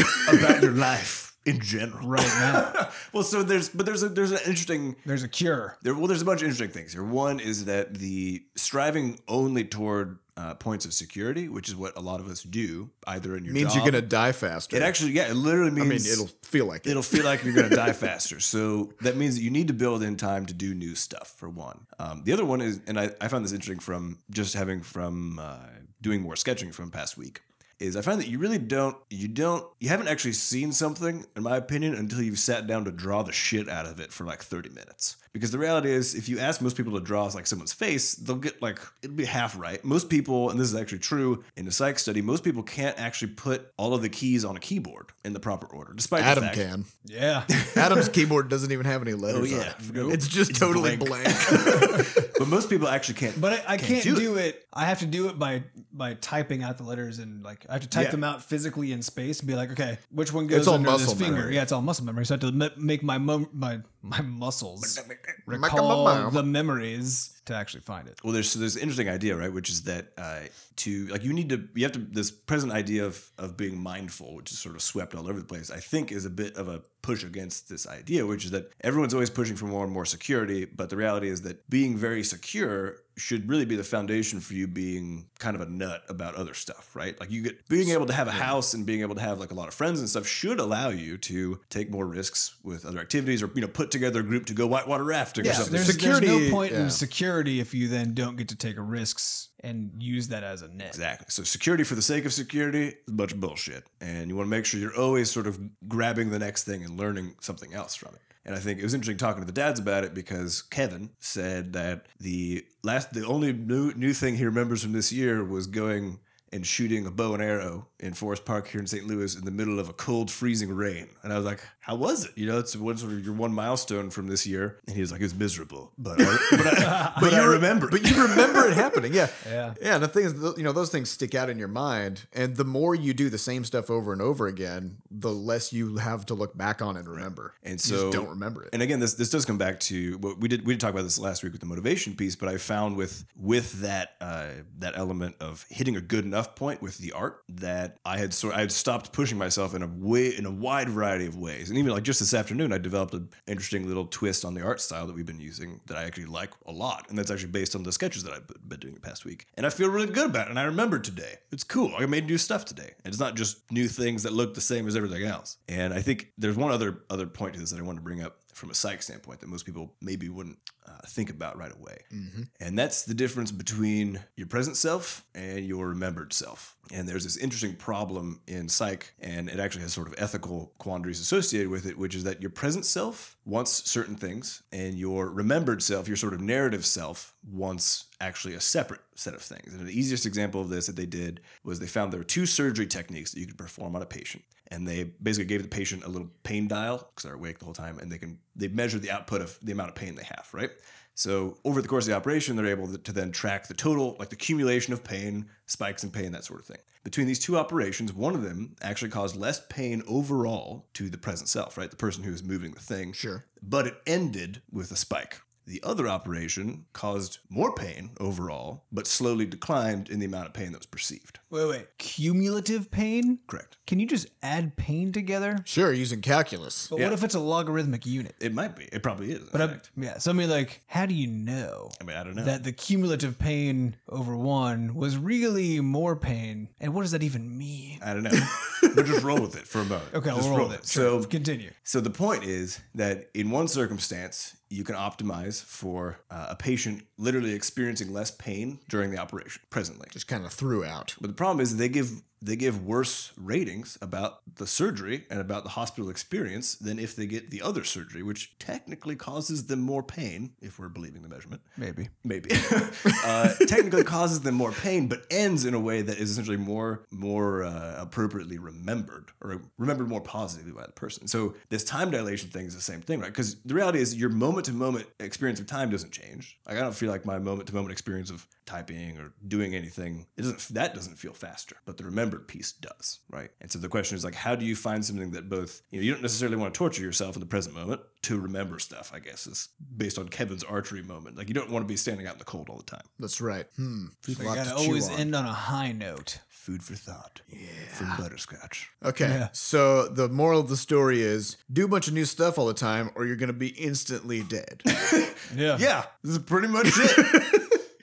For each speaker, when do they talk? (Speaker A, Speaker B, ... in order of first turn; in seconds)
Speaker A: 0.2-5.0, 5.8-14.1, 14.7-16.2, 16.9-46.6, 47.5-48.1, 49.3-54.4, 57.9-58.2, 64.8-65.4, 68.2-96.0, 100.9-128.9, 137.1-172.1, 172.6-221.4, 223.5-223.8, 226.9-227.2, 228.4-229.9, 232.0-232.6, 238.0-241.3, 241.8-250.1, 251.2-261.6, 262.2-293.1, 296.5-298.9, 304.9-307.6
Speaker B: 2.0-2.8, 5.0-5.8, 47.0-47.6, 49.8-50.2, 51.7-52.0, 53.4-68.2, 95.4-101.0, 126.8-127.2, 129.4-129.8, 221.5-225.7, 226.9-228.4, 229.5-238.0, 240.1-241.7, 261.8-262.7, 294.3-296.4, 299.2-299.5, 305.5-305.9
Speaker C: 13.5-14.9, 15.8-17.8, 46.2-46.9, 47.7-52.3, 60.5-61.6, 65.5-66.4, 87.8-88.6, 95.4-97.0, 126.2-138.7, 172.1-172.5, 213.2-213.4, 225.7-226.9, 250.1-251.2, 293.2-295.3, 297.5-298.2, 299.0-304.9, 306.8-307.7